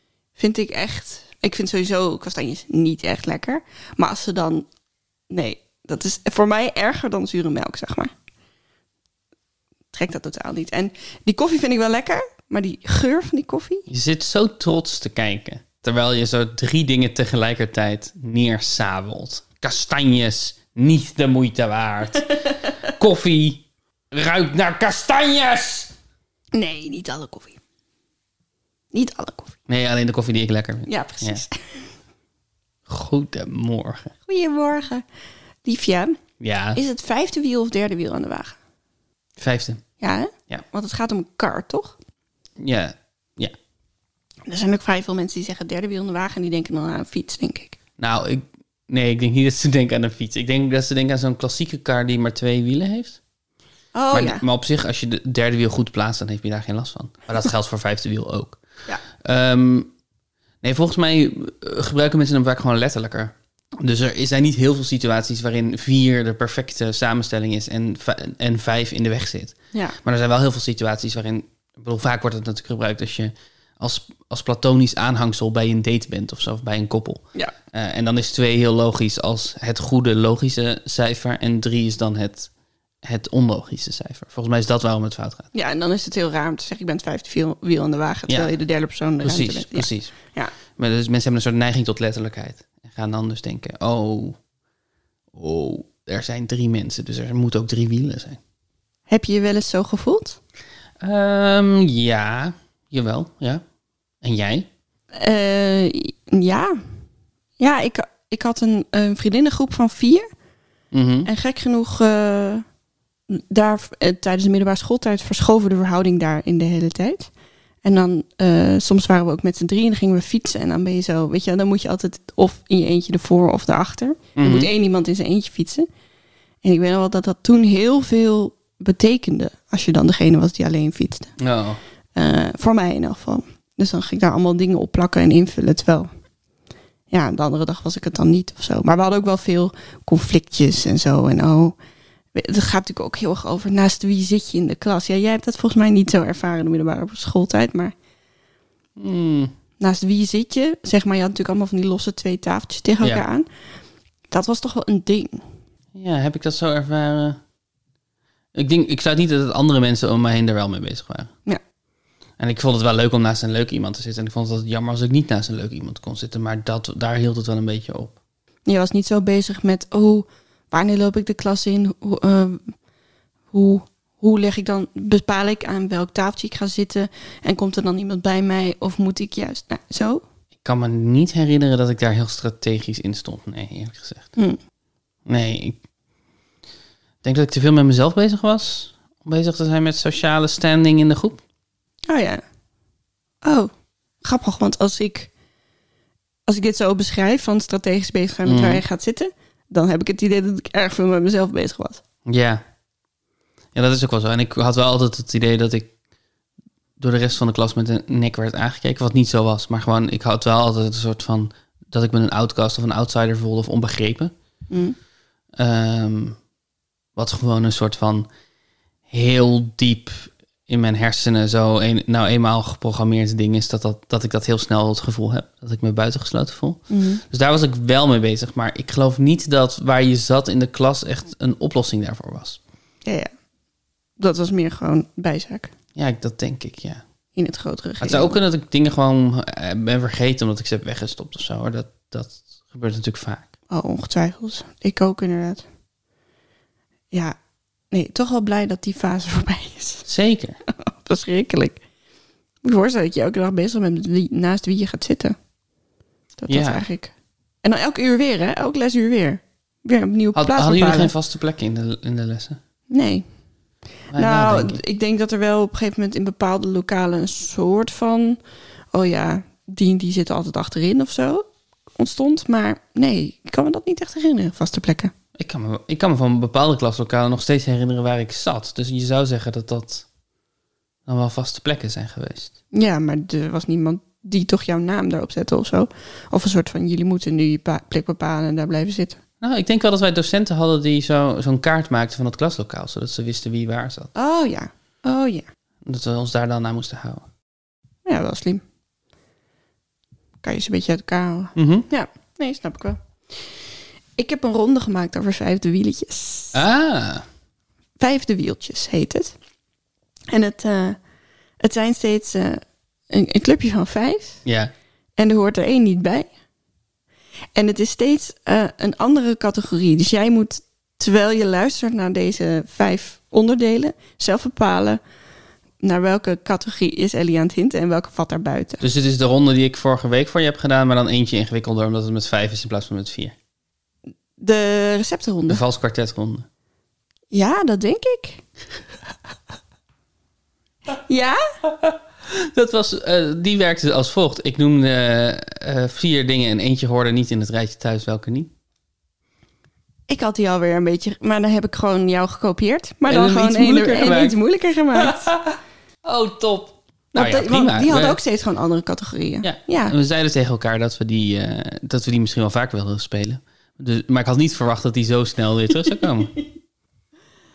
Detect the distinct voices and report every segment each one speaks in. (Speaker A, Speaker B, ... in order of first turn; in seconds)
Speaker A: 0.3-4.7, 5.3-8.1, 9.9-13.8, 26.5-27.6, 28.9-29.5, 30.9-31.9, 34.3-35.0, 35.6-36.2, 36.7-38.6, 40.0-42.0, 44.5-47.8, 53.9-54.4, 85.5-90.5, 99.1-100.4, 105.1-106.8, 107.6-110.2, 111.2-112.6, 113.3-117.3, 117.8-125.9, 126.6-131.3, 132.1-136.1, 137.1-141.8, 142.3-147.9, 149.8-153.5, 154.3-155.4, 168.7-172.7, 173.5-180.2, 192.1-192.4, 193.4-193.7, 194.2-195.3, 196.4-202.0, 214.7-215.0, 226.9-227.2, 233.0-233.3, 234.2-235.7, 237.3-238.4, 243.7-245.7, 247.9-250.1, 250.7-251.8, 252.6-255.3, 256.4-257.1, 257.6-261.1, 262.9-263.2, 264.1-268.4, 268.9-275.1, 282.7-289.2, 294.1-295.4, 298.0-298.6, 300.4-303.4, 304.2-306.6, 308.0-309.3, 310.3-311.0, 311.6-314.4, 315.2-316.3, 317.5-325.0, 325.8-328.8, 334.4-335.6, 337.3-338.4, 340.9-341.4, 350.1-355.3, 357.1-359.9
Speaker B: 13.9-25.9, 29.7-31.4, 32.9-34.1, 36.4-36.8, 39.4-39.8, 42.6-43.5, 48.0-53.2, 54.1-58.6, 59.2-59.9, 60.6-82.5, 83.0-85.5, 89.2-90.1, 90.7-94.4, 95.3-98.4, 101.0-103.6, 104.2-104.7, 110.9-111.3, 124.4-124.7, 131.4-131.8, 149.0-149.5, 155.9-157.4, 158.5-161.3, 162.4-168.2, 180.6-184.3, 185.2-185.8, 187.2-191.4, 198.4-198.8, 202.2-202.6, 203.7-205.9, 207.0-214.3, 215.6-216.4, 217.2-218.3, 219.1-232.6, 235.9-237.0, 238.0-243.5, 250.1-250.6, 256.5-256.8, 260.3-262.6, 264.1-264.8, 275.4-280.1, 281.1-282.5, 289.4-294.1, 295.9-297.2, 301.6-301.9, 306.5-307.2, 314.4-314.7, 328.8-333.4, 335.5-336.4, 341.7-348.5, 353.1-354.4, 354.9-358.2, 359.4-366.4